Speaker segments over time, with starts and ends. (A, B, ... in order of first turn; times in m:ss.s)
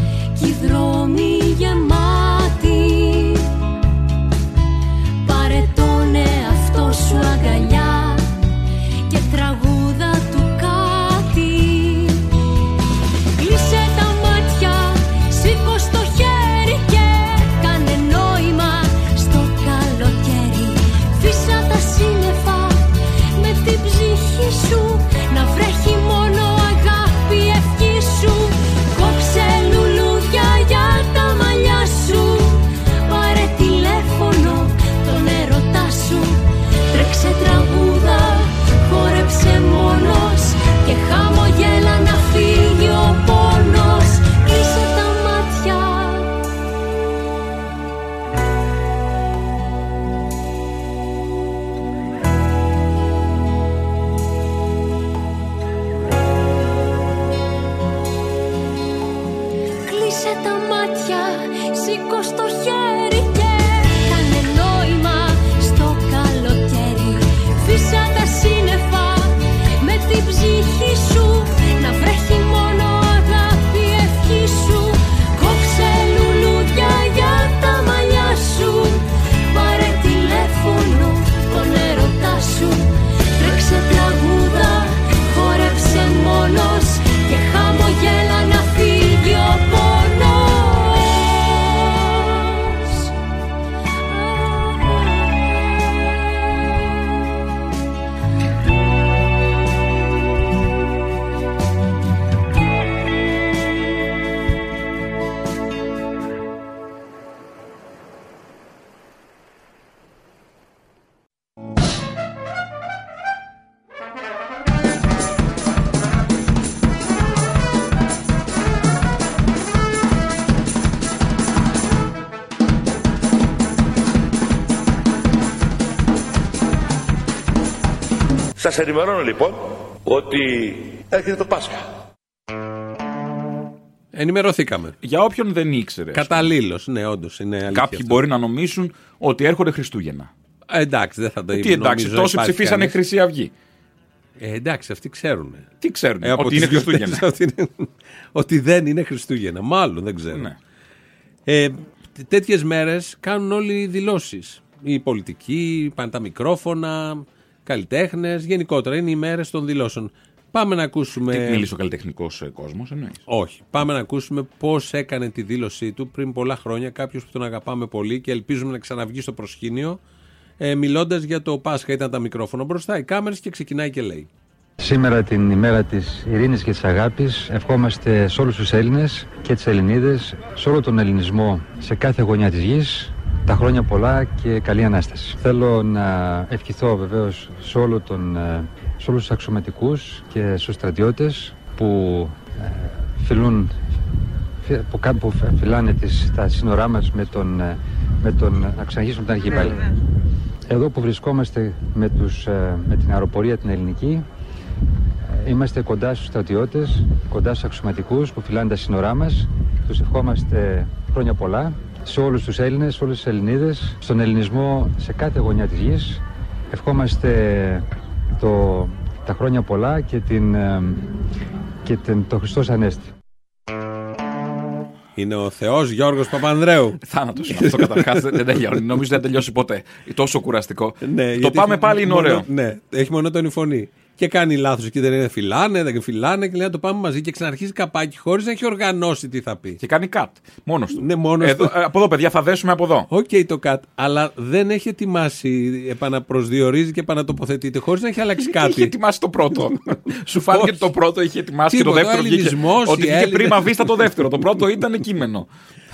0:00.4-0:03.5 A
0:05.2-0:08.3 A
0:09.1-0:12.3 A
0:13.4-0:46.4 A
0:59.8-1:33.1 A
1:34.1-1:36.2 A
2:08.6-2:11.8 B
2:14.1-2:15.0 C
2:15.0-2:16.5 D
2:16.1-2:18.2 C
2:17.7-2:20.3 D
2:20.7-2:23.0 C
2:21.5-2:23.5 D
2:24.4-2:25.7 C
2:25.8-2:27.2 D
2:26.2-2:30.5 C
2:31.5-2:41.7 C
2:41.3-2:43.2 D
2:43.3-2:50.0 C
2:50.6-2:54.3 C
2:54.8-3:13.7 E
3:14.6-3:19.9 E
3:20.7-3:24.2 E
3:25.3-3:41.1 E
3:41.8-3:43.1 E
3:45.2-3:48.8 C
3:47.0-3:52.5 D
3:51.0-3:59.8 C
3:59.8-4:03.1 D
4:01.0-4:01.7 C
4:03.1-4:08.9 C
4:08.4-4:15.5 D
4:10.5-4:10.8 C
4:11.7-4:14.0 C